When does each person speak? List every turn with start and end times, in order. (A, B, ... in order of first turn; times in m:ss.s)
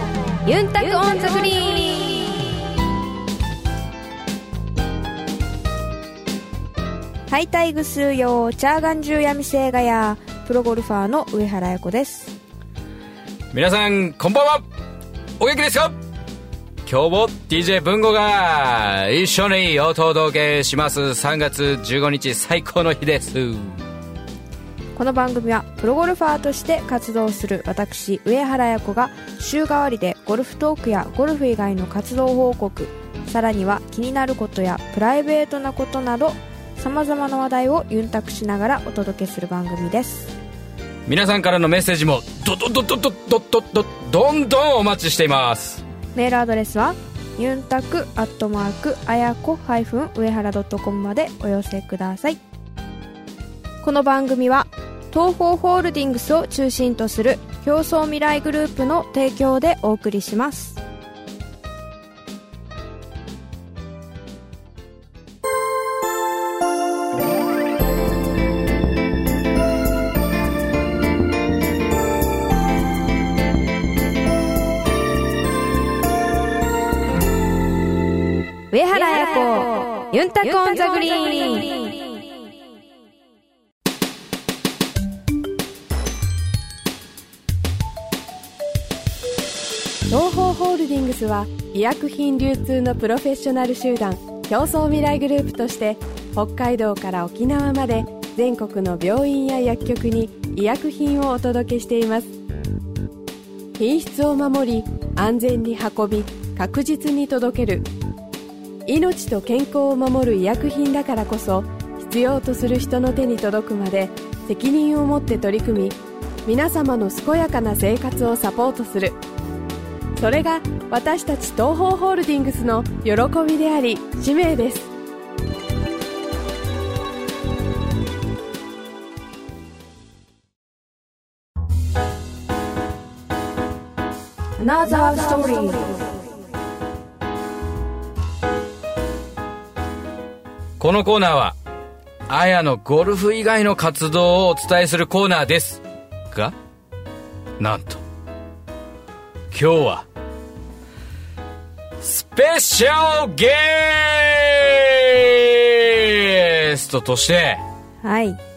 0:00.5-0:02.6 A
0:07.3-0:12.4 A
0:13.5-0:14.7 B
0:15.4-0:16.0 B
0:16.8-0:23.8 B
0:25.0-0:40.3 A
0:41.1-0:45.8 B
0:46.1-0:52.4 A
0:53.8-1:00.8 A
1:18.7-1:22.1 A
1:30.1-1:42.3 C
1:43.8-1:47.9 C
1:48.9-1:59.2 C
2:00.2-2:04.9 C
2:14.6-2:16.1 A
2:20.8-2:21.6 B
2:22.3-2:26.6 B
2:27.6-2:28.0 B
2:29.5-2:30.1 B
2:32.0-2:37.6 B
2:38.0-2:38.4 A